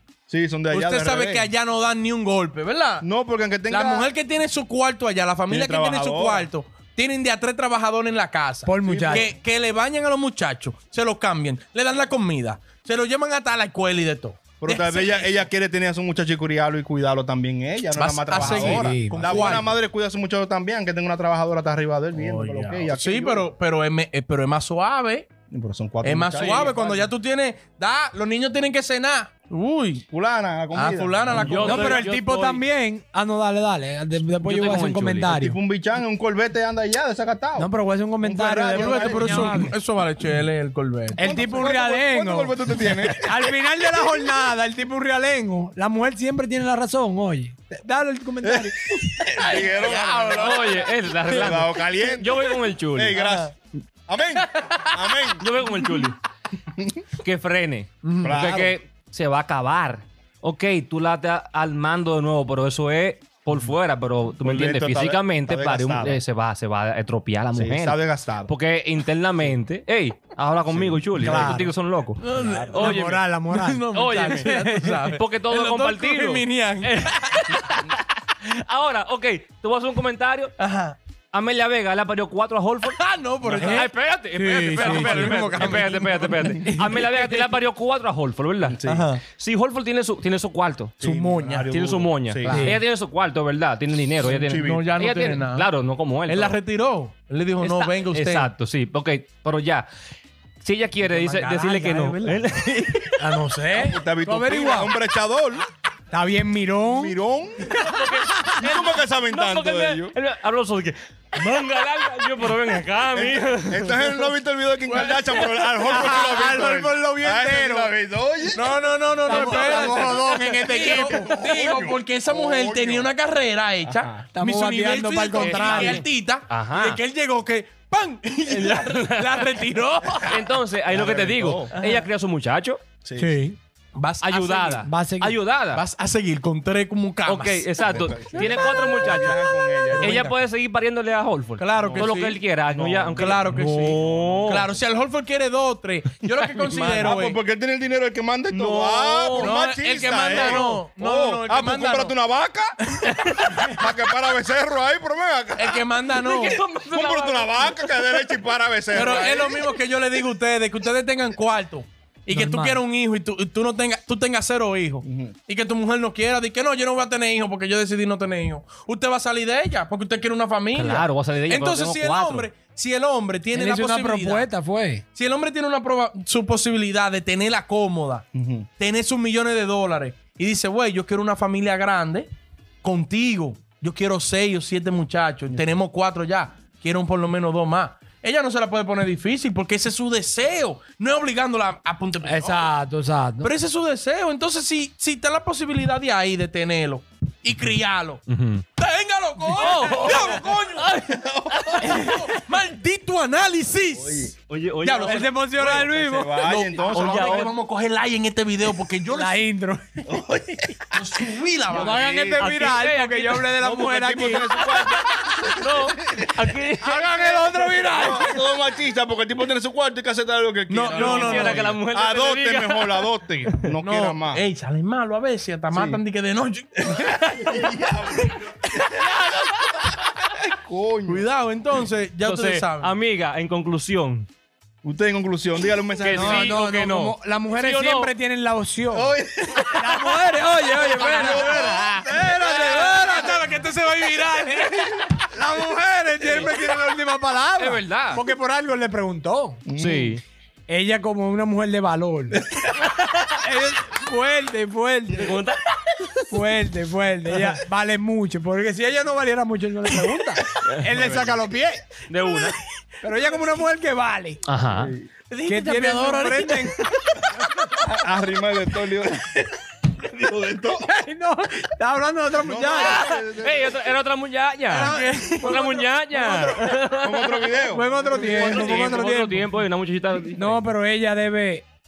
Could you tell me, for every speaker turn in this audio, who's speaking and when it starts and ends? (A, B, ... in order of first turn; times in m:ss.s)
0:00.3-0:01.5 A
0:00.7-0:03.1 B
0:03.0-0:04.1 A
0:03.7-0:15.5 B
0:05.5-0:06.5 A
0:08.6-0:09.3 C
0:08.8-0:09.3 A
0:14.6-0:23.5 A
0:18.0-0:19.8 B
0:18.4-0:19.5 C
0:22.1-0:25.3 B
0:25.5-0:27.1 A
0:26.0-0:30.1 B
0:26.4-0:26.7 D
0:30.1-0:31.7 A
0:30.7-0:32.0 B
0:31.3-0:32.6 D
0:31.6-0:35.6 C
0:34.4-0:35.3 D
0:35.3-0:37.7 A
0:37.6-0:39.8 C
0:38.2-0:39.6 A
0:38.7-0:41.4 B
0:41.2-0:49.0 C
0:41.2-0:43.5 A
0:48.4-0:50.7 A
0:49.2-0:51.6 B
0:50.4-0:53.2 D
0:51.4-0:53.6 A
0:53.1-0:53.5 B
0:54.1-0:55.4 A
0:54.4-0:56.1 B
0:55.4-0:56.2 D
0:56.8-0:57.0 A
0:57.2-1:13.3 D
0:58.0-0:58.4 B
0:58.2-0:58.8 A
1:04.4-1:06.2 A
1:07.5-1:08.5 A
1:10.7-1:11.1 A
1:11.2-1:11.7 C
1:12.2-1:17.8 B
1:12.4-1:12.8 A
1:12.8-1:15.0 C
1:13.9-1:20.5 D
1:20.6-1:21.0 B
1:21.3-1:31.0 D
1:22.8-1:23.9 B
1:23.6-1:25.4 C
1:24.4-1:27.5 B
1:28.7-1:29.1 A
1:28.8-1:29.2 B
1:31.0-1:32.7 A
1:31.0-1:31.7 B
1:31.7-1:36.6 D
1:32.5-1:32.8 B
1:32.5-1:32.8 C
1:34.2-1:35.7 B
1:34.3-1:34.9 A
1:36.3-1:38.5 B
1:37.6-1:39.9 D
1:40.6-1:43.2 D
1:41.0-1:42.6 B
1:43.2-1:44.9 C
1:43.7-1:45.7 A
1:46.1-1:48.5 C
1:46.8-1:47.8 A
1:47.7-1:54.2 D
1:48.5-1:50.2 A
1:53.1-2:00.4 A
1:54.9-1:55.4 B
1:55.8-1:57.9 C
1:58.6-2:10.4 B
1:59.3-2:01.3 C
2:01.1-2:03.1 A
2:03.8-2:04.2 A
2:04.4-2:06.0 C
2:05.3-2:07.0 D
2:08.5-2:09.6 D
2:10.2-2:12.8 D
2:10.3-2:11.7 A
2:11.7-2:12.1 B
2:13.0-2:13.4 A
2:13.2-2:13.6 C
2:14.0-2:14.9 B
2:14.2-2:15.8 D
2:14.8-2:15.4 C
2:15.7-2:19.0 B
2:17.3-2:24.7 D
2:17.8-2:20.2 A
2:19.9-2:20.4 B
2:21.6-2:22.4 B
2:21.8-2:24.5 A
2:23.2-2:27.4 B
2:26.7-2:32.8 A
2:26.8-2:27.2 D
2:28.5-2:29.6 D
2:29.4-2:32.2 B
2:30.3-2:30.8 D
2:32.9-2:33.8 B
2:33.2-2:33.7 D
2:33.6-2:35.8 A
2:35.6-2:36.6 B
2:36.1-2:38.4 D
2:36.9-2:39.6 A
2:38.9-2:39.8 D
2:38.9-2:54.5 B
2:42.3-2:42.8 C
2:45.0-2:45.4 A
2:50.7-2:52.5 D
2:53.5-2:55.0 C
2:55.2-2:58.3 B
2:58.3-2:58.7 A
2:58.8-3:02.3 B
3:02.8-3:12.7 B
3:12.2-3:13.5 C
3:13.4-3:18.2 B
3:18.3-3:18.7 D
3:18.8-3:21.0 B
3:19.5-3:22.2 D
3:21.3-3:22.0 A
3:21.8-3:25.9 B
3:24.0-3:24.3 A
3:24.5-3:25.4 D
3:25.0-3:26.4 C
3:26.0-3:27.4 A
3:26.4-3:29.4 B
3:26.9-3:27.6 D
3:29.2-3:30.0 C
3:30.0-3:30.7 A
3:30.9-3:32.0 B
3:31.7-3:34.8 C
3:31.7-3:37.3 D
3:33.7-3:36.4 A
3:36.8-3:38.4 C
3:37.1-3:44.4 A
3:40.7-3:41.8 B
3:40.9-3:43.1 D
3:43.8-3:48.8 B
3:45.7-3:46.0 A
3:47.1-3:47.7 D
3:47.4-3:48.8 A
3:48.9-3:50.2 D
3:50.5-3:51.3 A
3:51.1-3:53.0 B
3:52.2-3:54.3 D
3:54.8-3:56.5 A
3:56.0-3:58.1 D
3:56.1-3:59.1 C
3:58.9-4:00.1 A
3:59.7-4:03.6 C
4:00.6-4:03.3 D
4:00.7-4:02.8 A
4:02.5-4:05.2 B
4:05.3-4:09.6 C
4:06.3-4:06.6 D
4:07.6-4:08.2 D
4:09.7-4:10.2 A
4:09.8-4:10.2 D
4:10.7-4:12.4 C
4:12.8-4:13.2 D
4:13.4-4:15.4 C
4:15.1-4:16.2 D
4:16.3-4:21.9 C
4:20.6-4:21.4 D
4:22.1-4:22.6 D
4:23.0-4:24.4 C
4:24.5-4:24.9 D
4:24.8-4:25.1 A
4:25.3-4:26.8 B
4:25.5-4:27.4 C
4:27.8-4:29.5 A
4:29.9-4:30.7 B
4:30.3-4:30.9 A
4:30.8-4:33.0 C
4:32.4-4:33.8 A
4:32.7-4:37.5 D
4:34.7-4:35.8 C
4:34.8-4:36.4 B
4:36.9-4:38.9 A
4:37.7-4:39.5 C
4:38.1-4:40.6 D
4:40.3-4:41.6 C